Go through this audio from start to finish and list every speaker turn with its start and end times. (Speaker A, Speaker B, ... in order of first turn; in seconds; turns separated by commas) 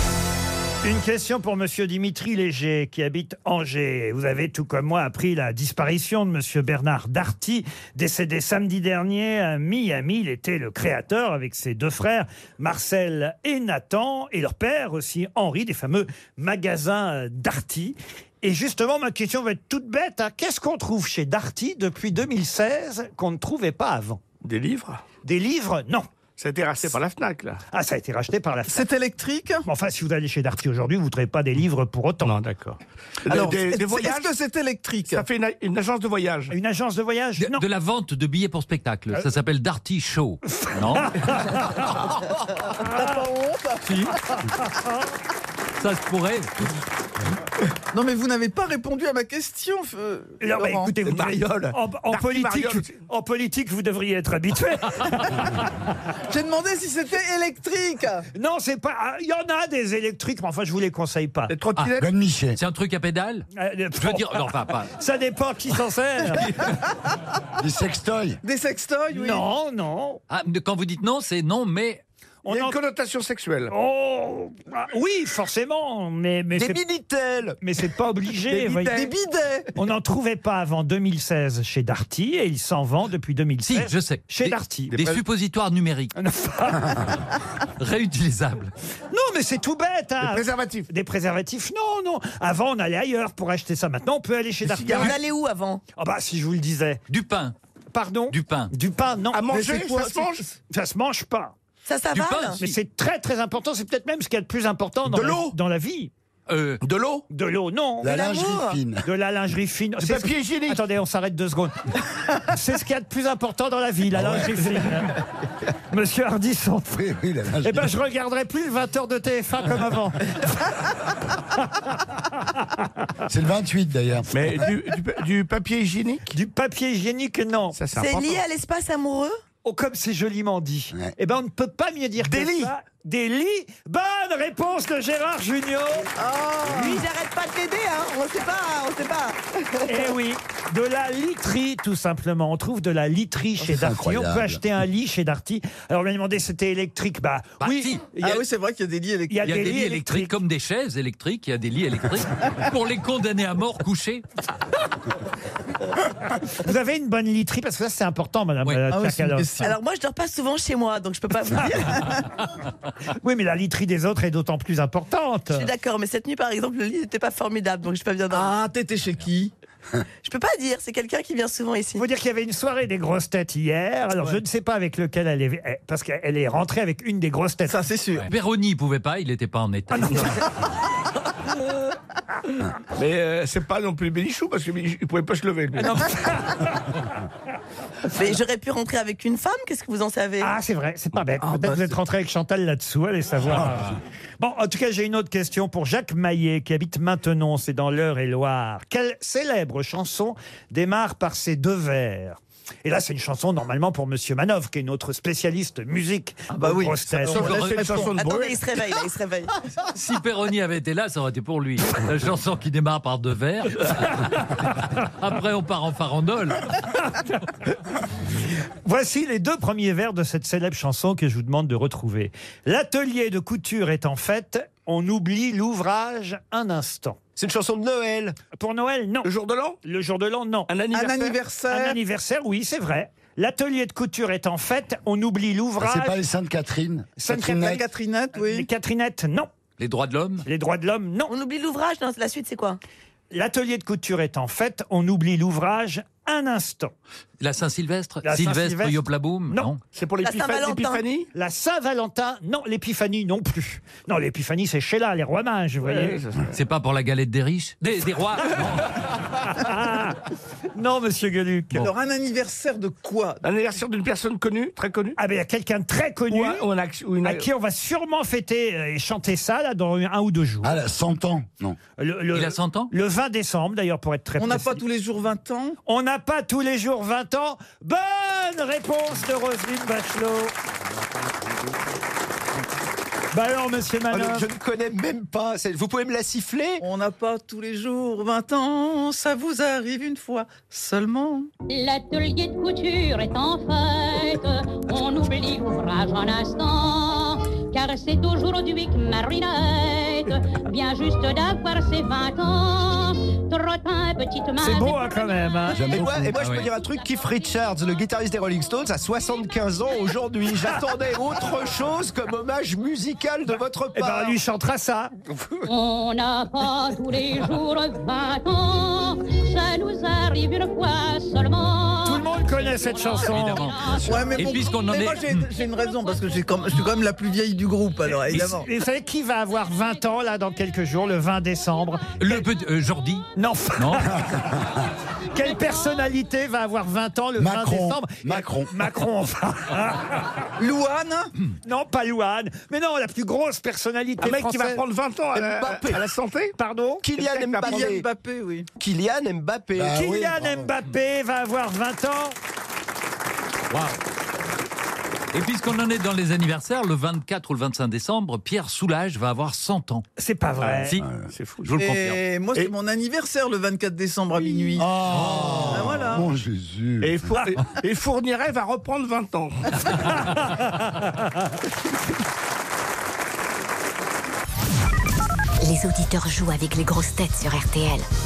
Speaker A: 0.8-24.2, Speaker B: 24.4-25.0, Speaker A: 25.2-26.1, Speaker B: 26.4-27.6, Speaker A: 27.7-28.9, Speaker C: 28.7-29.6, Speaker A: 29.6-32.3, Speaker B: 32.2-34.3, Speaker C: 33.3-35.2, Speaker B: 35.1-36.5, Speaker A: 36.5-37.6, Speaker D: 37.4-41.8, Speaker A: 40.6-41.9, Speaker A: 42.8-43.1, Speaker C: 42.8-44.1, Speaker A: 44.5-45.0, Speaker D: 45.8-46.5, Speaker C: 47.9-50.9, Speaker A: 50.4-55.6, Speaker B: 51.0-52.9, Speaker C: 56.3-58.3, Speaker A: 58.3-61.5, Speaker B: 61.5-62.1, Speaker E: 62.0-62.6, Speaker D: 62.5-64.9, Speaker A: 63.5-66.6, Speaker E: 67.6-68.4, Speaker C: 68.4-69.4, Speaker A: 69.1-70.2, Speaker D: 70.3-72.0, Speaker A: 72.4-72.8, Speaker B: 72.5-73.7, Speaker A: 73.7-76.8, Speaker F: 76.6-77.6, Speaker A: 77.6-79.1, Speaker B: 78.5-78.8, Speaker C: 78.8-79.7, Speaker A: 79.7-85.0, Speaker D: 83.7-86.1, Speaker A: 86.2-87.1, Speaker D: 87.8-88.7, Speaker A: 89.1-95.2, Speaker B: 90.2-90.9, Speaker B: 94.6-95.2, Speaker G: 94.9-95.8, Speaker A: 96.0-97.0, Speaker D: 97.1-97.5, Speaker A: 97.9-99.5, Speaker D: 98.3-98.7, Speaker B: 99.3-100.4, Speaker C: 99.5-100.4, Speaker A: 100.7-101.5, Speaker G: 101.8-102.6, Speaker D: 102.1-102.8, Speaker A: 102.6-106.1, Speaker B: 105.1-105.5, Speaker D: 106.5-106.8, Speaker B: 106.8-107.2, Speaker A: 107.3-108.2, Speaker E: 108.0-109.0, Speaker G: 108.0-108.8, Speaker A: 109.0-115.2, Speaker B: 110.0-110.8, Speaker E: 114.2-114.6, Speaker A: 115.9-117.0, Speaker E: 116.9-117.9, Speaker A: 117.6-120.8, Speaker A: 121.6-121.9, Speaker E: 123.3-124.6, Speaker B: 124.3-126.3, Speaker A: 126.3-127.8, Speaker B: 127.7-128.4, Speaker G: 127.9-129.4, Speaker A: 129.6-136.1, Speaker B: 132.2-132.7, Speaker C: 136.2-137.0, Speaker G: 136.7-139.4, Speaker A: 139.9-148.4, Speaker E: 143.6-144.6, Speaker D: 147.6-148.1, Speaker C: 148.2-149.7, Speaker A: 149.3-150.3, Speaker D: 149.4-154.2, Speaker A: 156.5-159.5, Speaker C: 158.9-159.8, Speaker G: 159.6-162.2, Speaker A: 163.2-165.7, Speaker G: 165.5-168.5, Speaker C: 168.3-169.5, Speaker G: 170.2-172.0, Speaker A: 171.9-177.8, Speaker C: 177.7-178.3, Speaker D: 178.2-180.5, Speaker B: 182.9-186.0, Speaker A: 185.8-186.9, Speaker G: 188.1-190.5, Speaker A: 190.4-207.6, Speaker B: 191.4-191.8, Speaker C: 206.5-208.2, Speaker B: 207.2-208.7, Speaker G: 208.1-209.5, Speaker D: 209.9-216.8, Speaker A: 218.8-227.2, Speaker F: 227.3-228.3, Speaker A: 228.6-229.3, Speaker B: 229.2-229.8, Speaker A: 229.8-230.7, Speaker B: 230.7-231.4, Speaker C: 230.9-232.0, Speaker A: 231.7-236.2, Speaker E: 235.8-237.8, Speaker A: 237.2-239.5, Speaker C: 237.5-238.7, Speaker D: 239.8-240.4, Speaker A: 240.4-241.3, Speaker G: 241.3-242.8, Speaker A: 243.3-246.9, Speaker D: 247.4-249.8, Speaker A: 248.2-249.7, Speaker B: 249.9-251.3, Speaker G: 250.2-251.0, Speaker A: 251.3-256.2, Speaker B: 255.8-256.5, Speaker D: 256.5-258.9, Speaker A: 259.4-260.2, Speaker A: 260.7-261.9, Speaker C: 261.7-263.4, Speaker B: 263.4-265.2, Speaker A: 265.2-266.6, Speaker B: 266.3-267.5, Speaker A: 267.2-270.8, Speaker E: 270.6-271.8, Speaker A: 272.0-274.8, Speaker D: 272.3-272.9, Speaker C: 274.4-275.8, Speaker A: 275.9-280.5, Speaker A: 283.3-284.5, Speaker F: 284.1-286.8, Speaker C: 286.8-291.5, Speaker H: 291.7-306.0, Speaker A: 304.6-305.9, Speaker E: 305.7-306.3, Speaker F: 305.9-314.4, Speaker D: 306.3-306.7, Speaker H: 306.6-307.6, Speaker A: 313.9-315.1, Speaker H: 315.6-324.1, Speaker A: 322.0-323.7, Speaker D: 323.2-325.5, Speaker C: 324.0-328.7, Speaker A: 328.3-332.4, Speaker D: 332.2-334.1, Speaker A: 333.4-334.2, Speaker E: 334.1-334.7, Speaker A: 335.3-340.3, Speaker E: 337.4-338.7, Speaker C: 340.6-341.3, Speaker A: 341.6-344.8, Speaker B: 344.2-346.5, Speaker F: 345.3-346.1, Speaker A: 346.6-347.0, Speaker F: 347.0-348.0, Speaker B: 347.1-348.0, Speaker C: 347.6-348.7, Speaker F: 348.8-350.0, Speaker E: 349.7-350.7, Speaker A: 349.9-352.4, Speaker D: 353.7-354.0, Speaker D: 355.3-360.0, Speaker A: 360.2-360.9, Speaker B: 360.6-361.8, Speaker E: 361.0-361.3, Speaker D: 361.6-362.2, Speaker C: 361.7-364.9, Speaker B: 364.5-364.7, Speaker E: 364.8-367.3, Speaker D: 365.1-365.7, Speaker C: 365.7-366.3, Speaker B: 367.0-369.7, Speaker A: 370.3-370.8, Speaker I: 375.6-378.1